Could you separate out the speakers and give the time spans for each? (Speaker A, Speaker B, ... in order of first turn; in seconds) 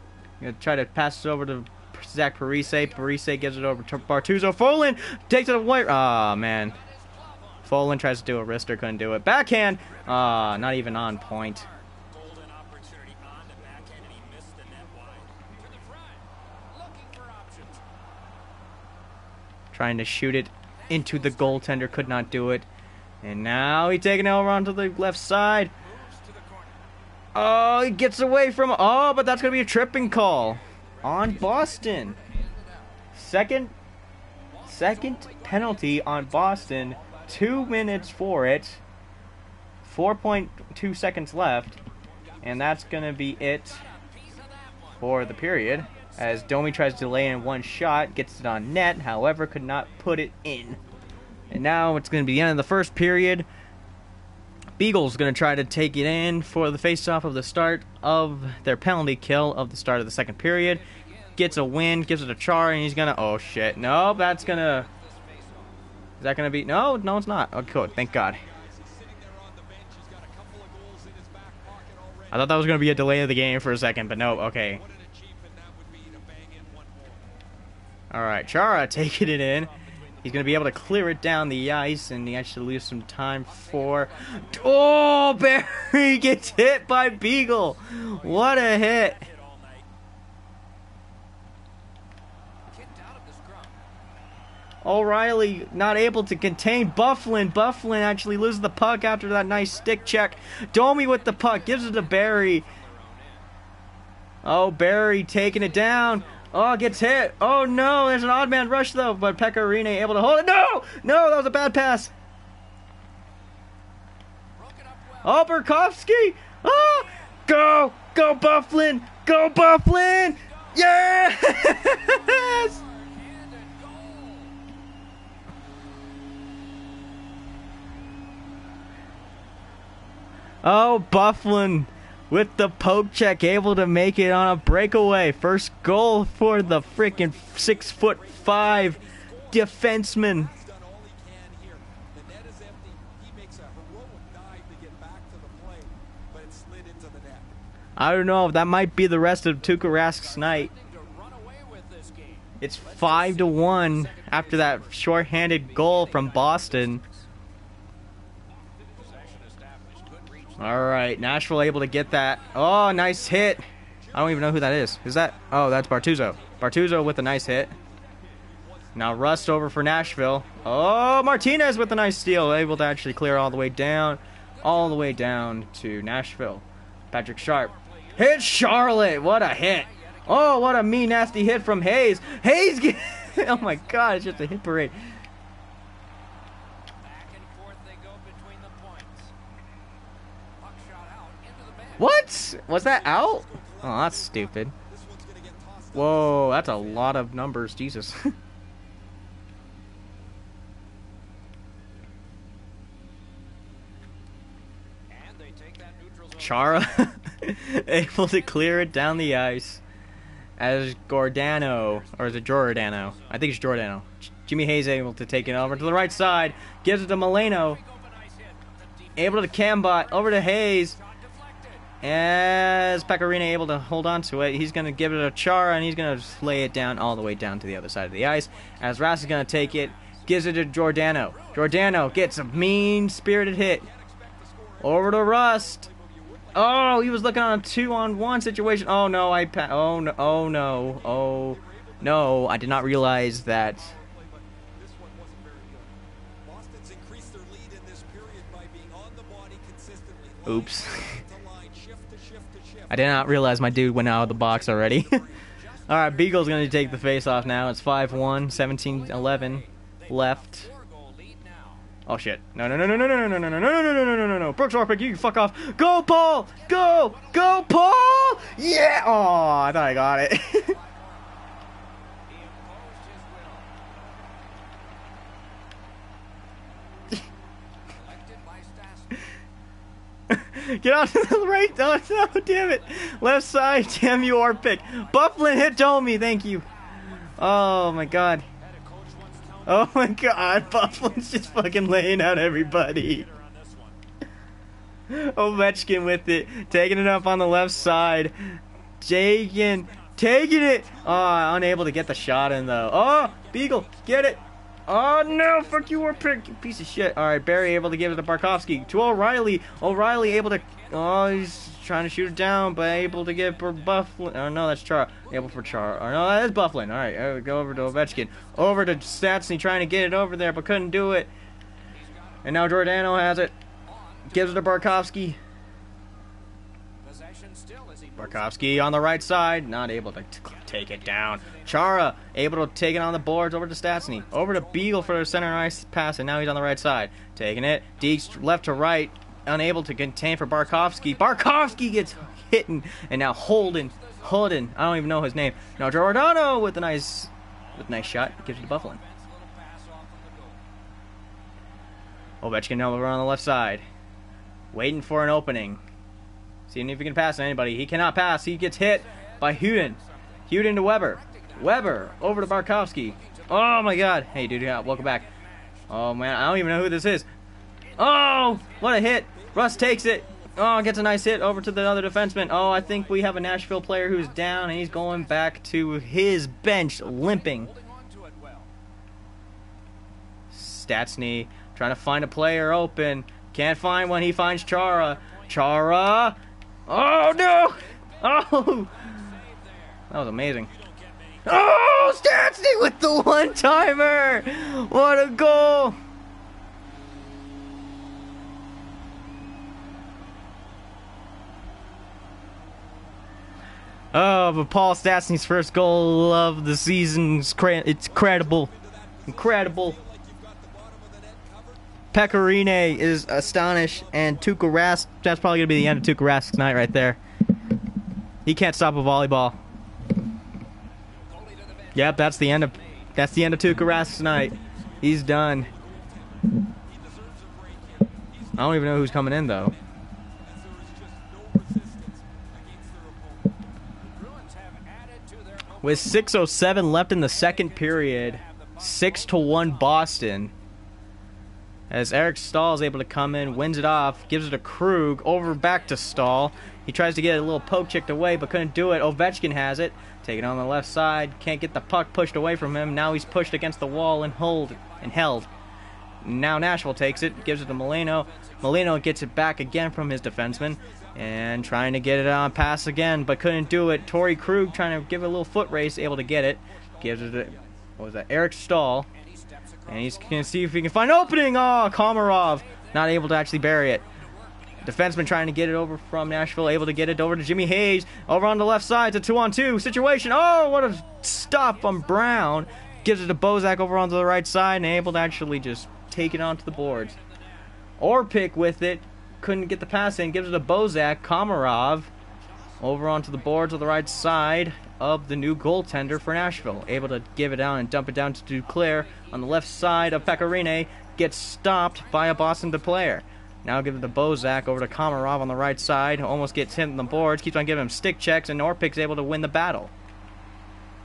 Speaker A: 0.4-6.8, 7.6-11.7, 19.7-22.7, 23.2-25.7, 27.3-32.2, 33.1-33.7, 34.6-38.8, 39.8-41.8, 42.4-43.9, 45.0-50.8, 51.5-53.5, 54.8-60.8, 61.4-64.9, 66.2-68.4, 72.3-74.8, 78.1-89.2, 94.8-102.7, 104.4-112.1, 115.2-122.8, 130.6-140.5, 148.0-150.7, 152.6-157.0, 160.6-167.7, 168.9-185.1, 192.0-194.7, 195.9-198.3, 206.4-209.8, 210.6-217.8, 219.2-221.0, 222.0-233.9, 234.8-235.9, 236.5-243.9, 250.4-251.2, 252.9-255.2, 255.9-260.7, 262.1-270.7, 280.3-288.4, 289.6-293.3, 295.1-321.3, 322.4-323.5, 324.3-325.4, 328.2-349.0, 352.4-353.8, 354.7-355.8, 356.7-365.3, 365.9-367.3, 368.0-377.7, 380.5-389.2, 390.1-390.7, 391.4-396.0, 404.1-408.7, 409.3-410.0, 412.1-417.2, 418.4-419.6, 421.9-425.7, 428.6-429.8, 435.8-440.5, 441.9-455.5, 456.2-469.1, 469.9-474.0, 474.8-487.1, 488.0-492.1, 492.8-509.9
Speaker B: 6.7-7.7, 9.9-17.9, 20.8-22.5, 25.8-26.9, 29.8-33.0, 34.5-38.0, 42.2-47.0, 60.7-62.0, 63.4-65.8, 79.5-81.0, 83.4-89.9, 92.7-93.8, 99.8-103.5, 105.5-106.5, 114.5-115.5, 116.7-117.3, 120.5-120.9, 121.5-124.6, 136.7-139.5, 149.8-157.2, 158.5-160.9, 162.4-163.0, 174.6-175.2, 177.5-180.7, 182.2-184.5, 187.0-189.3, 190.6-192.2, 205.1-207.1, 208.2-209.2, 211.7-213.5, 215.4-216.2, 217.6-222.0, 229.2-230.1, 231.2-232.6, 255.5-261.9, 266.5-268.6, 270.4-271.5, 272.3-273.7, 277.9-279.3, 284.0-287.4, 288.6-294.0, 302.4-304.4, 305.2-306.5, 307.8-308.8, 311.1-311.9, 312.5-314.0, 315.2-316.2, 317.5-319.0, 321.9-322.5, 323.9-324.9, 327.0-328.7, 330.5-332.0, 333.9-335.6, 338.3-338.6, 340.6-342.3, 343.8-344.6, 347.7-350.6, 358.7-365.9, 368.0-368.8, 372.5-375.6, 377.0-378.7, 384.2-385.8, 387.2-390.1, 390.6-391.8, 421.1-423.2, 434.0-440.1, 443.5-444.3, 445.6-446.3, 453.0-453.3, 454.5-455.4, 457.3-459.0, 460.8-461.2, 463.9-464.8, 465.9-467.7, 469.1-470.6, 472.3-475.4, 481.5-483.1, 486.4-487.7, 492.4-494.4, 496.3-496.9, 498.6-501.1, 501.9-503.1, 504.2-505.6
Speaker C: 67.7-72.8, 74.5-77.2, 140.2-147.5, 164.1-167.1, 168.8-169.5, 192.7-196.6, 233.8-236.9, 240.8-242.7, 243.4-255.5, 369.3-371.5, 408.1-414.7, 424.6-429.5, 430.4-433.5